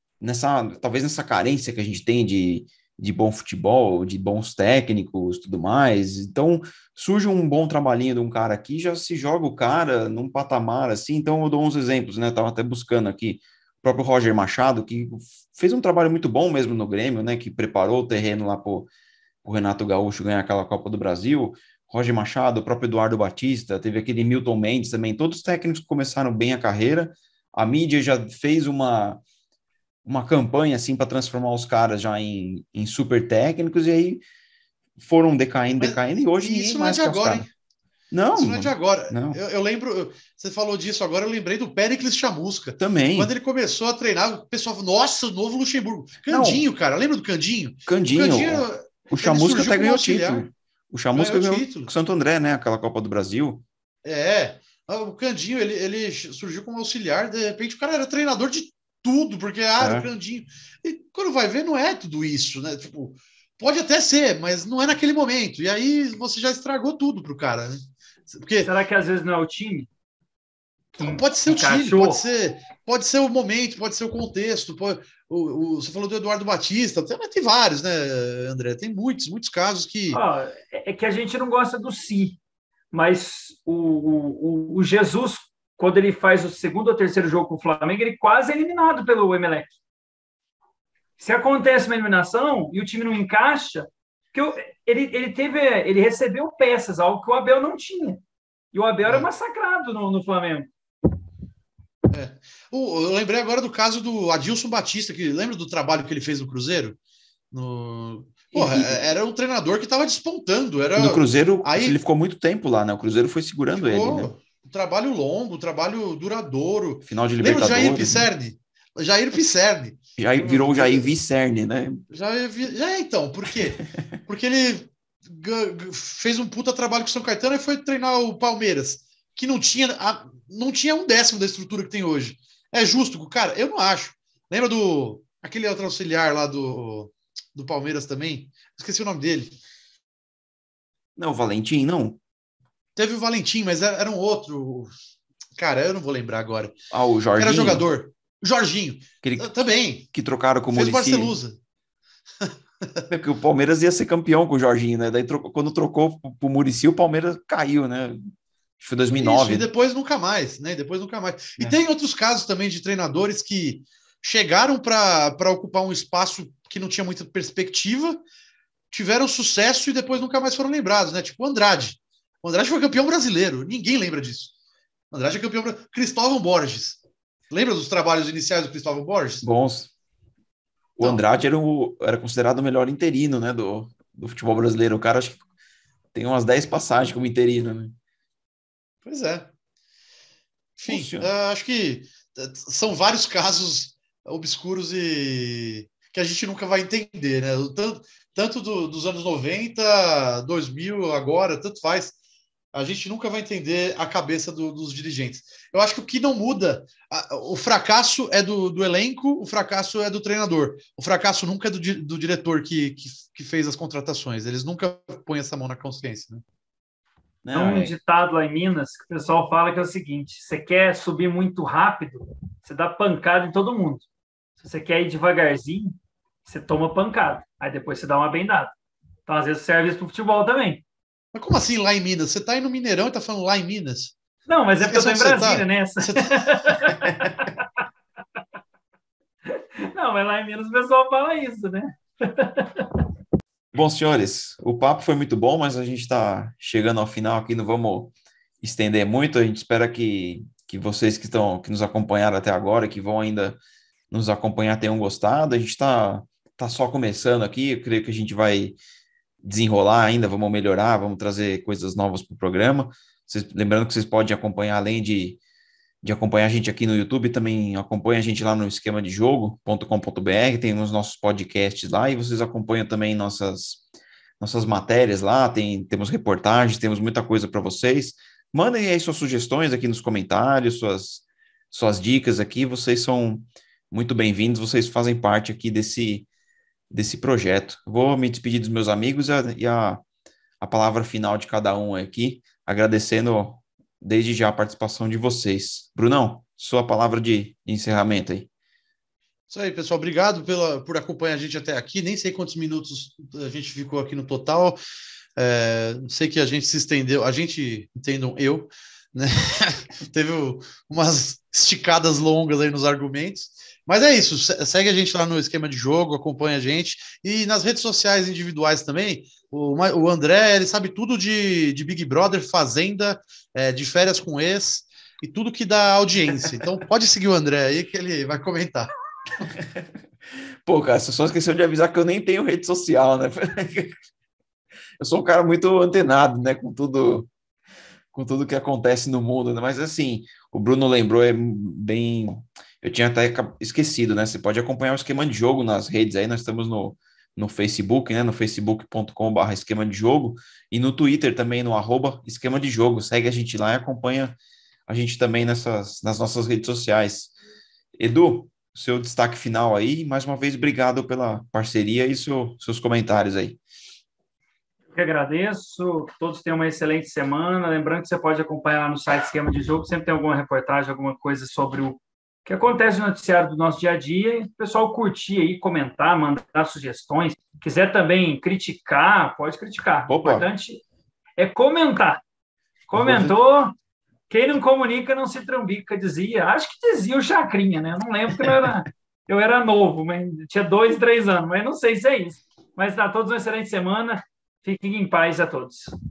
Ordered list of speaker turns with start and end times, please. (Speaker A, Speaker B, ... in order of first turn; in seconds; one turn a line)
Speaker A: 0.2-18.9
Speaker A: 19.4-29.2
Speaker A: 30.0-34.2
Speaker A: 35.0-37.5
Speaker B: 35.8-37.5
Speaker A: 38.1-39.4
Speaker B: 38.3-50.5
Speaker A: 42.8-43.3
Speaker A: 46.3-46.6
Speaker A: 47.9-53.6
Speaker B: 51.1-51.9
Speaker B: 54.0-68.7
Speaker A: 59.8-60.1
Speaker C: 68.6-69.9
Speaker B: 71.0-80.2
Speaker C: 71.0-72.2
Speaker C: 80.1-82.4
Speaker C: 82.9-89.8
Speaker C: 91.2-98.2
Speaker C: 98.7-100.7
Speaker B: 102.1-107.0
Speaker B: 107.5-112.0
Speaker A: 108.5-109.1
Speaker A: 111.0-114.3
Speaker B: 113.7-121.1
Speaker A: 117.1-118.3
Speaker A: 120.2-122.0
Speaker B: 122.1-139.6
Speaker A: 141.2-142.2
Speaker B: 142.9-144.9
Speaker B: 145.6-146.7
Speaker A: 146.9-147.8
Speaker B: 147.4-150.1
Speaker A: 149.2-151.3
Speaker B: 150.7-151.6
Speaker B: 152.4-153.0
Speaker A: 153.1-158.2
Speaker A: 158.8-159.7
Speaker B: 159.1-168.2
Speaker B: 168.9-174.5
Speaker B: 175.1-179.4
Speaker A: 179.4-179.9
Speaker A: 181.0-185.4
Speaker A: 186.1-187.9
Speaker B: 189.0-189.5
Speaker B: 190.8-202.2
Speaker A: 190.9-191.3
Speaker B: 202.7-216.4
Speaker A: 217.4-217.9
Speaker C: 217.5-224.1
Speaker C: 224.6-228.7
Speaker C: 229.2-230.8
Speaker B: 231.3-234.1
Speaker C: 234.4-237.6
Speaker B: 234.7-236.6
Speaker C: 239.5-243.0
Speaker A: 243.7-253.6
Speaker A: 254.1-258.8
Speaker A: 259.4-265.4
Speaker A: 266.0-273.8
Speaker A: 274.4-286.3
Speaker A: 286.9-290.0
Speaker A: 290.6-298.5
Speaker B: 299.5-304.8
Speaker B: 305.4-328.9
Speaker A: 329.6-329.8
Speaker A: 330.6-333.9
Speaker A: 335.0-337.3
Speaker A: 338.1-354.4
Speaker A: 354.9-357.3
Speaker A: 358.0-363.6
Speaker C: 364.9-380.8
Speaker A: 380.1-380.5
Speaker C: 381.4-382.2
Speaker C: 382.9-383.7
Speaker A: 382.9-383.4
Speaker C: 384.3-395.9